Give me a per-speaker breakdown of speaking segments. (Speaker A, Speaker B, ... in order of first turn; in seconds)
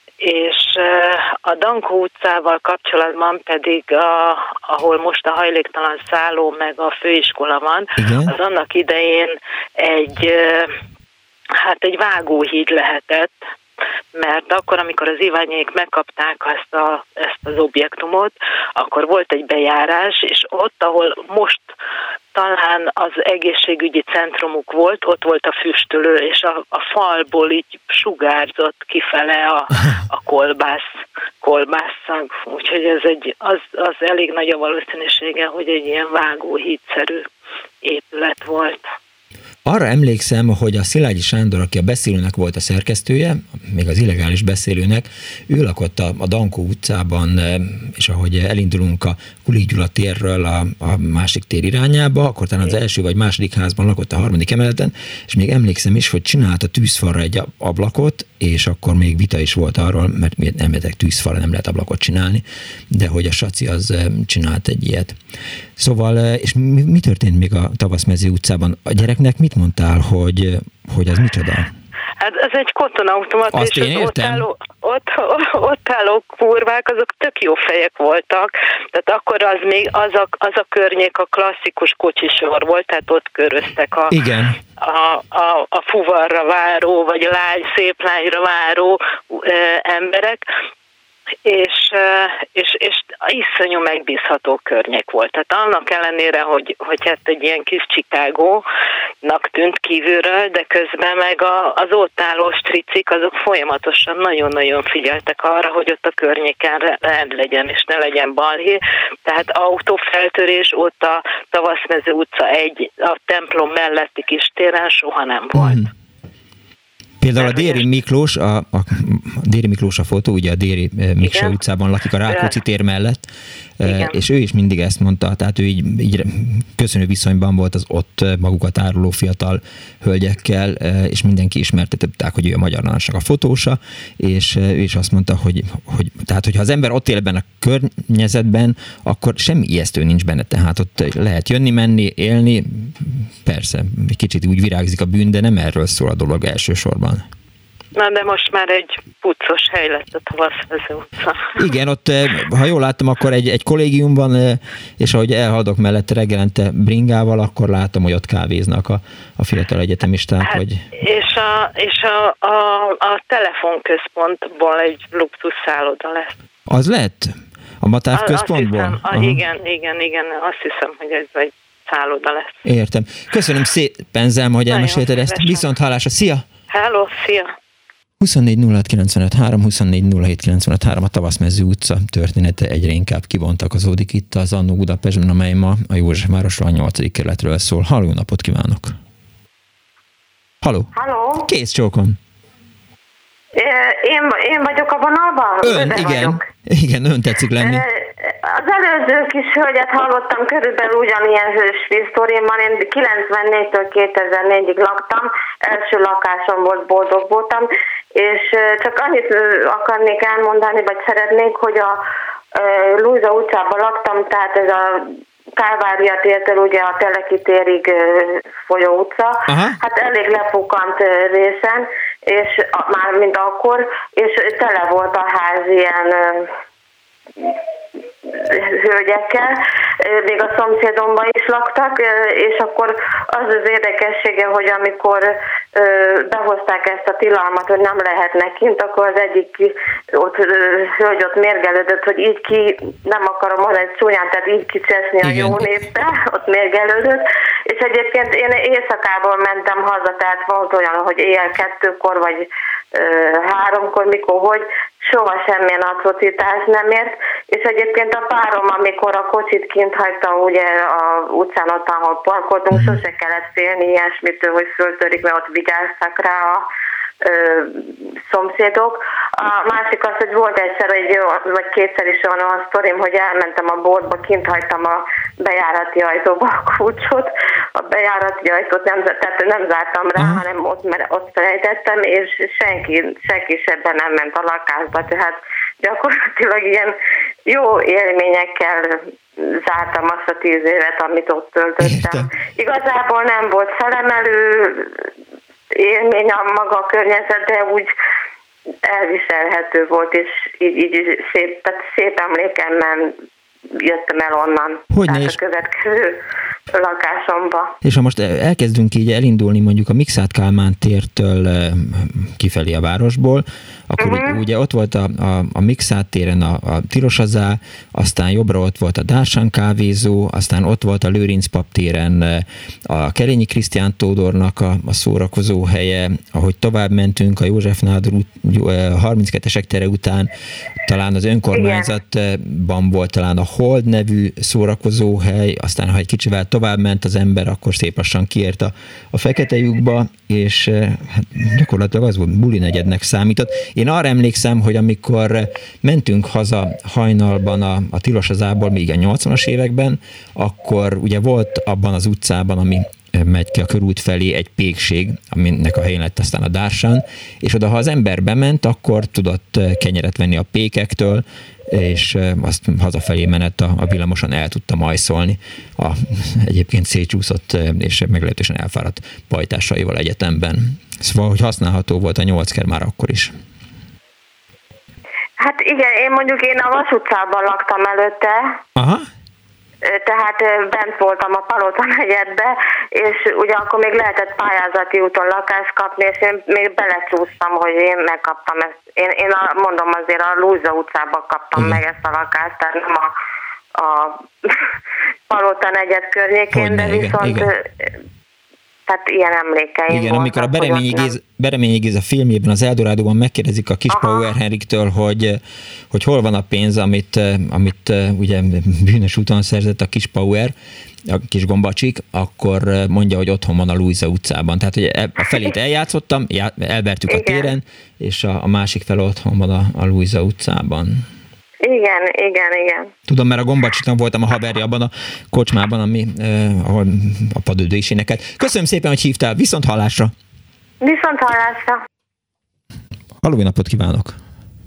Speaker A: 0.2-10.7, 11.6-13.4, 14.2-21.7, 22.3-37.3, 37.8-38.9, 72.2-84.2, 84.8-90.4, 91.5-98.6, 99.2-115.9, 117.4-117.9, 121.2-121.6, 122.2-122.5, 123.8-124.2, 147.9-151.7, 160.4-166.3, 168.1-172.6, 174.7-175.7, 176.7-177.5
Speaker B: 8.0-8.3, 39.7-65.2, 65.8-71.7, 73.5-74.5, 84.1-84.6, 115.5-115.9, 117.2-123.3, 123.8-147.2, 151.6-160.8, 166.7-169.4, 172.7-176.4, 178.2-188.9, 190.6-190.9, 191.4-192.2, 195.6-197.8, 219.5-219.8, 245.2-245.7, 262.7-263.0, 280.2-280.4, 291.8-292.3, 304.9-305.4, 307.8-330.3, 330.8-373.3, 378.8-379.1, 391.6-391.8, 396.5-397.5, 399.9-405.4, 405.9-410.5, 411.1-421.0, 423.1-430.1, 433.2-434.2
Speaker C: 190.9-191.4, 193.6-196.5, 197.6-212.0, 212.5-226.5, 228.3-266.7, 267.2-286.9, 287.5-295.0, 295.8-297.9, 298.8-303.1, 303.7-306.2, 306.8-307.7, 314.0-314.4, 331.5-331.9, 375.4-378.6, 379.9-393.1, 393.8-394.6, 395.3-397.9, 398.9-401.1, 403.9-404.3, 417.1-417.5, 421.6-422.9, 430.8-431.8